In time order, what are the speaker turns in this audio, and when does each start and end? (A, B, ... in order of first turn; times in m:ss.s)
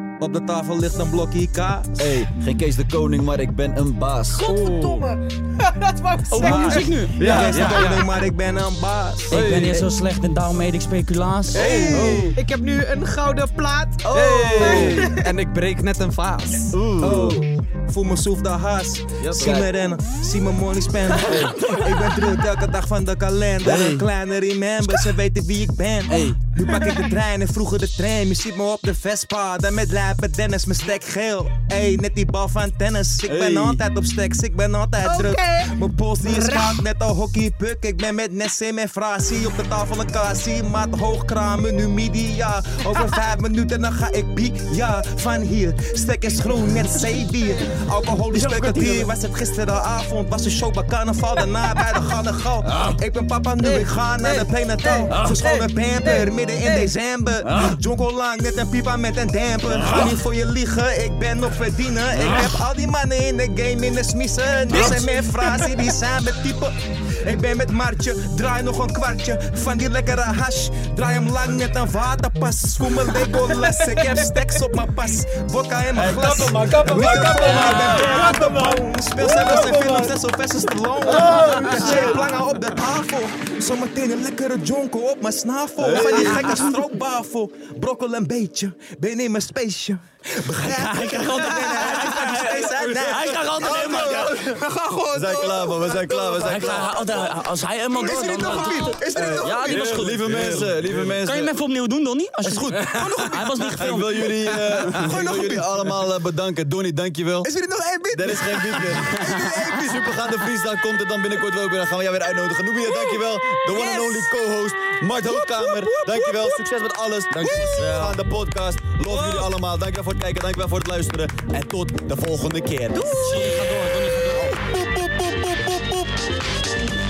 0:00.2-0:02.1 A
0:02.0-0:04.5 B
0:04.4-0:07.0 C
0:04.4-0:05.1 D
0:06.3-0:07.8 E
0:06.4-0:08.1 D
0:06.4-0:07.6 B
0:07.2-0:09.9 A
0:09.3-0:09.8 D
0:09.3-0:12.0 E
0:11.5-0:12.3 B
0:11.6-0:12.2 A
0:11.7-0:12.3 D
0:12.3-0:15.3 C
0:14.0-0:15.1 B
0:14.1-0:16.7 D
0:16.7-0:17.4 B
0:17.0-1:37.3 A
0:19.2-0:19.5 D
0:19.3-0:19.7 B
0:21.3-0:21.9 E
0:23.6-0:24.0 B
0:26.1-0:26.4 B
0:33.3-0:33.8 B
0:35.0-0:36.8 C
0:48.3-0:49.1 E
0:52.7-0:52.9 B
0:53.6-0:56.9 C
0:55.1-0:55.4 E
0:57.5-0:57.8 E
0:59.8-1:00.2 E
1:02.2-1:02.5 B
1:04.7-1:05.8 C
1:16.0-1:20.1 B
1:16.9-1:18.7 E
1:17.7-1:18.3 C
1:19.6-1:19.8 E
1:21.0-1:22.2 B
1:21.2-1:22.2 C
1:21.4-1:22.2 E
1:25.8-1:26.7 B
1:26.2-1:26.8 E
1:30.6-1:34.5 E
1:33.5-1:34.4 B
1:35.1-1:37.2 B
1:36.3-1:40.7 E
1:37.9-1:40.1 A
1:39.0-1:41.6 B
1:40.1-1:41.0 D
1:41.2-1:45.0 E
1:42.5-1:43.6 A
1:42.8-1:43.3 D
1:43.6-1:47.5 B
1:44.9-1:46.0 A
1:47.4-1:50.0 A
1:48.1-2:03.6 B
1:49.1-1:49.7 E
1:53.8-1:54.2 E
1:55.2-1:56.6 A
1:57.3-1:58.2 E
1:57.4-1:58.0 A
1:59.1-1:59.5 E
2:03.0-2:04.6 E
2:04.3-2:06.3 A